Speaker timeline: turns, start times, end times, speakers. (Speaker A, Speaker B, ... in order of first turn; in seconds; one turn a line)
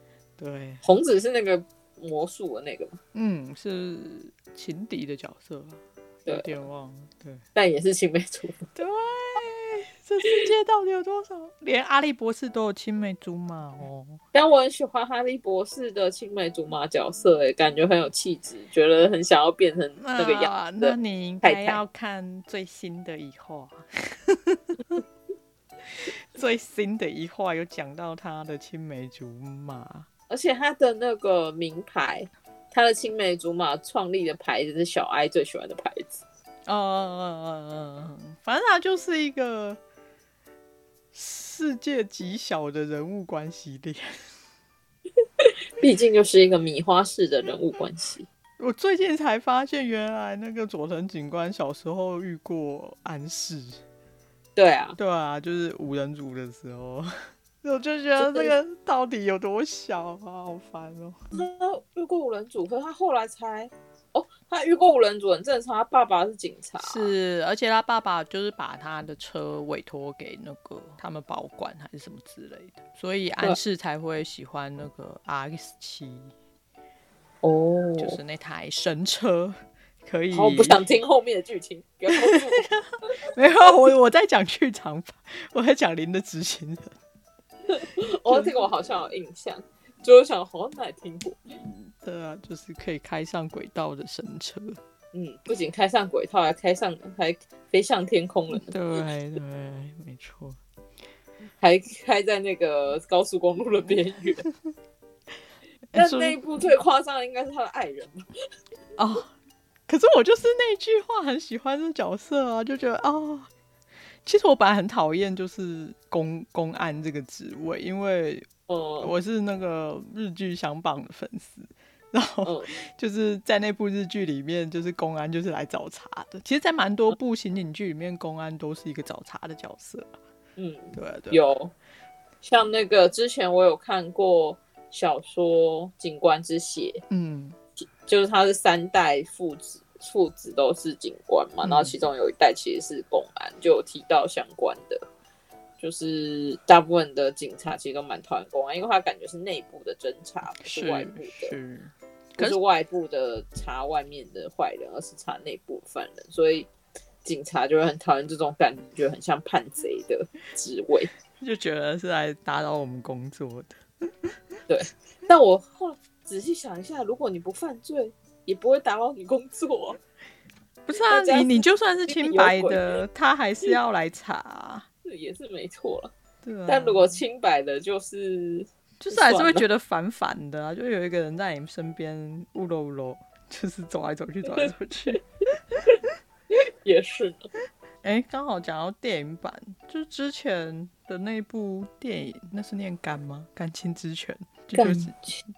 Speaker A: 0.4-0.8
Speaker B: 0.8-3.0
Speaker A: 3.1-7.4
Speaker B: 7.5-8.7
Speaker A: 8.8-14.2
Speaker B: 14.3-21.8
Speaker A: 20.0-25.0
Speaker A: 25.9-30.1
Speaker B: 30.3-36.2
Speaker A: 36.7-39.8
Speaker A: 41.1-44.1
Speaker B: 45.4-48.2
Speaker A: 48.6-53.8
Speaker B: 54.5-55.0
Speaker A: 55.0-61.2
Speaker B: 58.2-58.5
Speaker B: 61.3-67.1
Speaker A: 66.8-76.3
Speaker B: 77.4-78.2
Speaker A: 78.0-80.8
Speaker B: 80.3-82.7
Speaker A: 82.2-87.0
Speaker B: 87.7-91.5
Speaker A: 88.3-88.5
Speaker A: 91.6-94.8
Speaker B: 95.1-98.8
Speaker A: 98.5-100.6
Speaker B: 101.6-104.4
Speaker A: 105.9-106.4
Speaker B: 105.9-108.3
Speaker A: 109.0-109.3
Speaker A: 109.9-113.5
Speaker A: 114.2-118.5
Speaker B: 118.7-119.1
Speaker A: 119.0-130.1
Speaker B: 122.4-122.7
Speaker B: 130.6-131.7
Speaker A: 130.9-131.4
Speaker B: 132.4-137.0
Speaker A: 137.1-137.6
Speaker B: 138.1-145.0
Speaker A: 141.6-141.9
Speaker B: 145.8-151.5
Speaker A: 150.6-152.6
Speaker B: 152.4-156.7
Speaker B: 157.2-161.1
Speaker A: 161.4-164.3
Speaker B: 164.7-170.0
Speaker A: 170.9-174.8
Speaker B: 170.9-172.9
Speaker B: 175.0-176.1
Speaker A: 176.4-177.1
Speaker B: 176.7-179.6
Speaker A: 179.0-185.2
Speaker B: 184.5-185.2
Speaker B: 186.5-187.5
Speaker A: 188.0-195.3
Speaker B: 194.7-195.1